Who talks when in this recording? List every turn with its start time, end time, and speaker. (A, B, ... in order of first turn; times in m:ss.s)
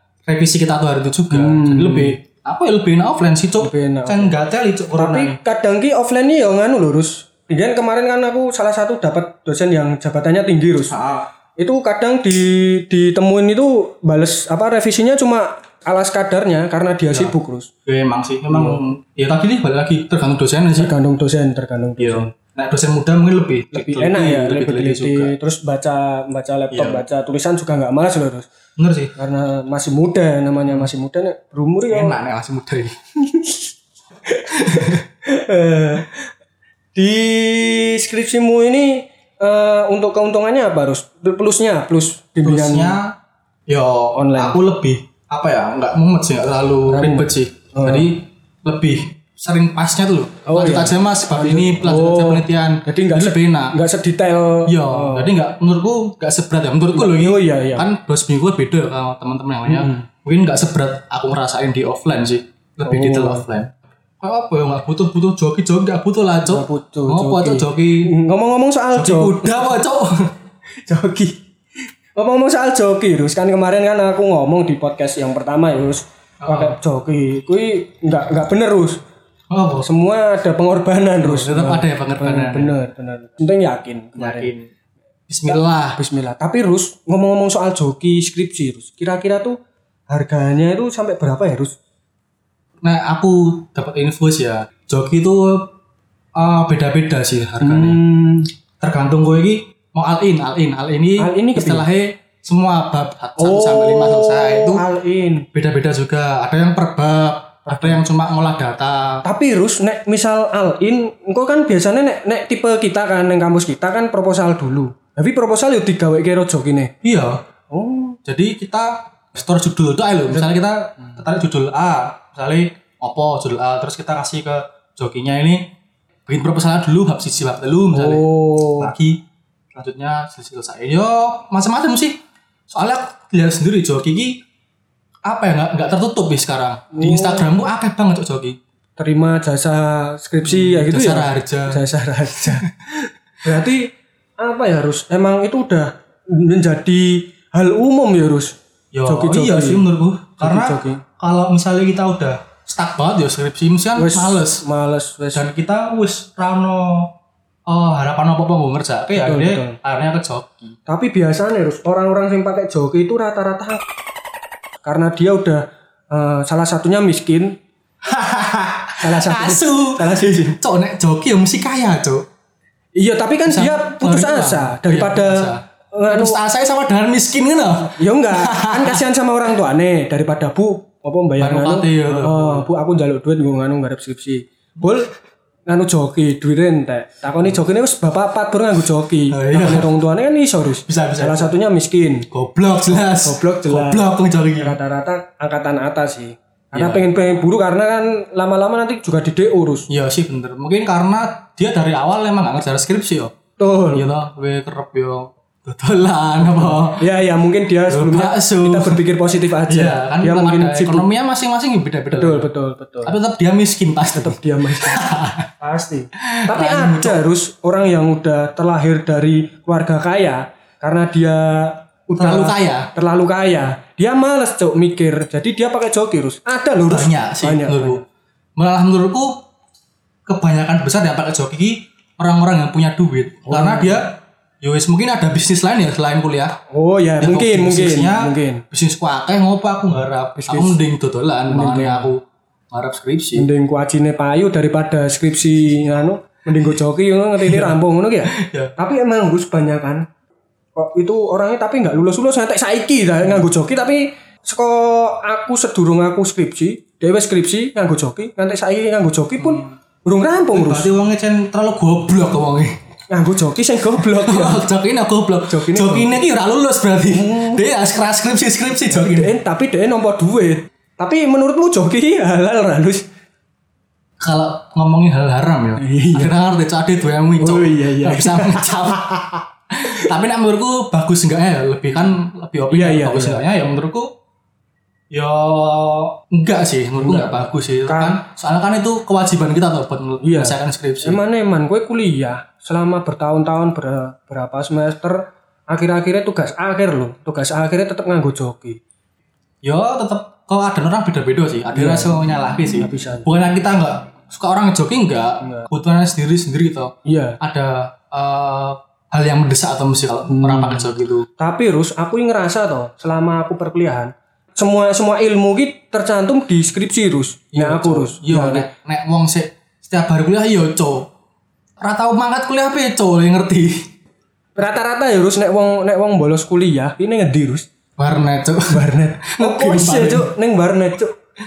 0:00.2-0:05.4 A
0:01.3-0:02.2 B
0:03.6-0:04.4 B
0:05.0-0:11.0 B
0:10.9-0:11.3 A
0:11.6-0:17.7 B
0:17.8-0:20.9 A
0:18.5-0:18.8 B
0:20.7-0:22.3 B
0:22.0-0:25.3 A
0:23.7-0:28.5 B
0:26.7-0:27.0 A
0:28.8-0:29.1 A
0:29.2-0:32.2 B
0:31.9-0:33.0 A
0:33.2-0:33.7 B
0:34.3-0:36.3 B
0:34.5-0:35.0 A
0:36.9-0:43.0 B
0:42.4-0:43.1 A
0:43.7-0:53.8 A
0:44.1-0:44.6 B
0:46.9-0:48.1 B
0:50.4-0:55.3 B
0:54.6-1:08.1 A
0:56.9-0:57.9 B
0:59.7-1:00.1 B
1:02.8-1:03.4 B
1:06.4-1:09.7 B
1:08.9-1:10.3 A
1:10.8-1:11.4 B
1:12.1-1:19.0 B
1:16.4-1:16.8 A
1:19.5-1:19.9 A
1:19.8-1:24.5 B
1:21.2-1:22.7 A
1:24.2-1:24.7 A
1:25.3-1:26.0 A
1:26.0-1:29.6 B
1:30.1-1:31.8 B
1:32.8-1:35.7 A
1:36.3-1:38.0 A
1:37.6-1:38.5 B
1:38.8-1:44.8 A
1:41.2-1:41.8 B
1:43.4-1:45.5 B
1:45.5-1:49.2 A
1:47.7-1:48.0 B
1:49.2-1:56.9 B
1:57.0-1:57.4 A
1:57.7-1:58.2 B
1:58.2-2:05.7 A
2:06.3-2:09.2 A
2:07.9-2:08.9 B
2:09.7-2:14.4 A
2:15.2-2:18.6 A
2:16.9-2:17.5 B
2:19.0-2:22.7 B
2:20.4-2:21.8 A
2:22.3-2:22.7 A
2:23.4-2:28.5 B
2:28.9-2:34.6 A
2:29.1-2:29.8 B
2:30.4-2:31.0 B
2:34.0-2:35.5 B
2:35.3-2:37.1 A
2:37.7-2:40.8 A
2:39.2-2:39.8 B
2:40.9-2:43.8 B
2:44.8-2:47.6 B
2:48.0-2:52.2 A
2:49.0-2:50.6 B
2:53.0-2:56.4 B
2:53.4-2:59.0 A
2:57.9-3:05.1 B
3:01.4-3:02.7 A
3:05.7-3:12.3 B
3:09.3-3:09.9 A
3:10.9-3:11.5 A
3:12.3-3:14.8 A
3:12.9-3:19.9 B
3:16.7-3:17.0 A
3:19.9-3:23.3 A
3:23.6-3:24.1 B
3:23.9-3:27.1 A
3:26.4-3:31.1 B
3:27.9-3:29.0 A
3:29.7-3:32.5 A
3:32.1-3:33.1 B
3:33.0-3:35.5 A
3:34.1-3:35.1 B
3:35.6-3:48.0 B
3:36.2-3:37.2 A
3:42.2-3:42.9 A
3:46.8-3:48.0 A
3:48.6-3:49.4 A
3:50.2-3:56.6 A
3:53.5-3:54.0 B
3:56.7-3:58.6 B
3:57.2-4:03.5 A
4:00.4-4:00.8 B
4:01.5-4:02.1 B
4:03.4-4:10.1 B
4:07.4-4:08.7 A
4:10.8-4:20.9 B
4:19.4-4:19.7 A
4:20.5-4:22.8 A
4:23.1-4:24.6 B
4:24.0-4:29.3 A
4:25.5-4:26.2 B
4:27.1-4:27.6 B
4:28.9-4:33.0 B
4:34.2-4:44.1 A
4:35.8-4:36.3 B
4:37.4-4:39.4 B
4:42.7-4:43.4 B
4:45.1-4:51.2 A
4:47.0-4:48.2 B
4:50.2-4:58.8 B
4:59.6-5:11.2 A
5:01.7-5:02.2 B
5:02.7-5:03.3 B
5:05.4-5:05.7 B
5:07.0-5:07.4 B
5:10.3-5:18.7 B
5:17.5-5:21.1 A
5:21.8-5:23.9 A
5:24.6-5:27.7 B
5:28.0-5:30.3 A
5:28.7-5:31.2 B